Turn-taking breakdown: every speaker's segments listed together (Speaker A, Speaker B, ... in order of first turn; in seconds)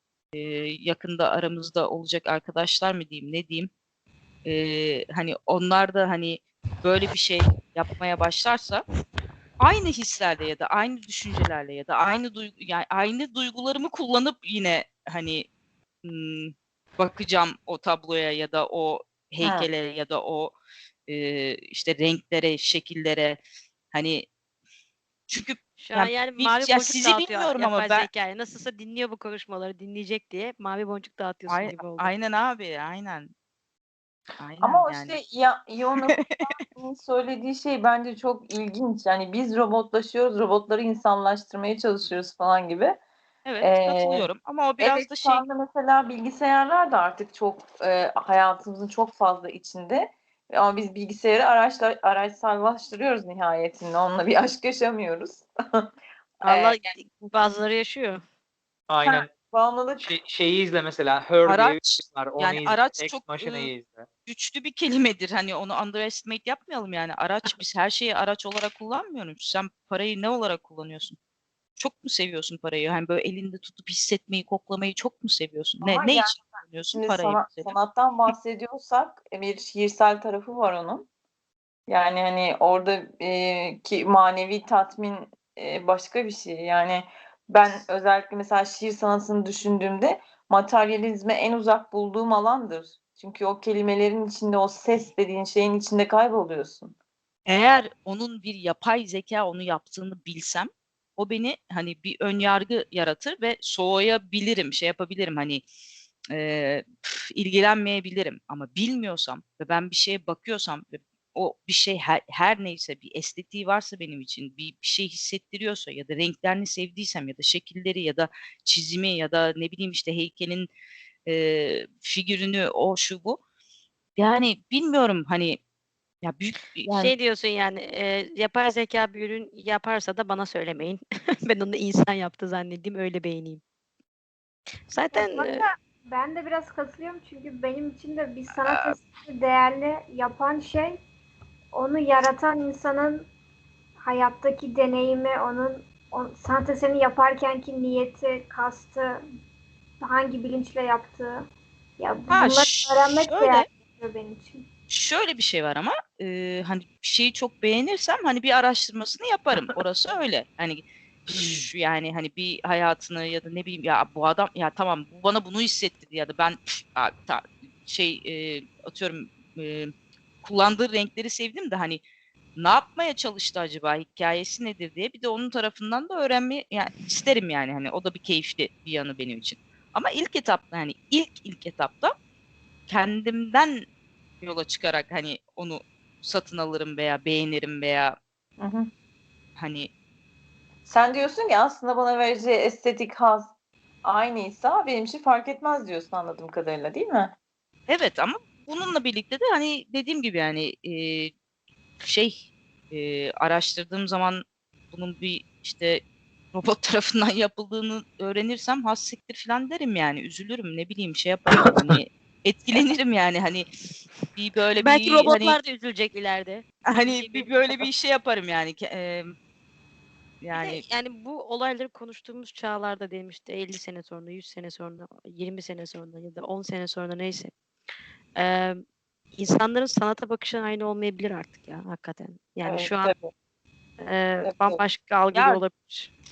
Speaker A: 0.3-3.7, 4.4-8.8, 9.6-15.5, 16.0-20.6, 21.1-23.4, 23.9-24.3, 25.3-28.1, 31.5-33.3, 34.4-35.2, 36.0-36.6, 43.4-45.4, 61.4-63.7, 64.2-71.2, 71.8-77.7, 97.5-105.6, 106.3-120.7, 121.2-123.4, 124.2-125.6, 126.2-127.1, 138.6-139.0, 152.3-153.7, 154.9-169.9, 170.4-172.0, 172.6-182.1, 182.9-183.8, 184.4-188.2, 189.6-189.9, 197.9-201.3, 202.0-206.0, 206.5-213.7, 214.3-215.6, 216.8-219.3, 220.4-220.8, 235.3-235.6
Speaker B: 19.4-19.7, 34.6-43.0, 43.6-44.2, 44.8-55.9, 56.4-56.9, 59.0-60.1, 75.8-76.3, 76.9-81.0, 81.9-96.9, 188.6-188.9, 190.8-193.5, 194.0-197.3, 232.6-233.3, 234.4-234.8
Speaker C: 25.8-32.1, 56.4-58.2, 126.8-133.6, 134.9-135.7, 214.8-217.8, 220.5-227.5, 228.4-228.8, 229.3-233.1, 234.0-236.1
Speaker D: 58.9-59.3, 60.0-64.1
Speaker E: 135.1-141.0, 141.7-143.3, 144.0-149.2, 150.0-154.6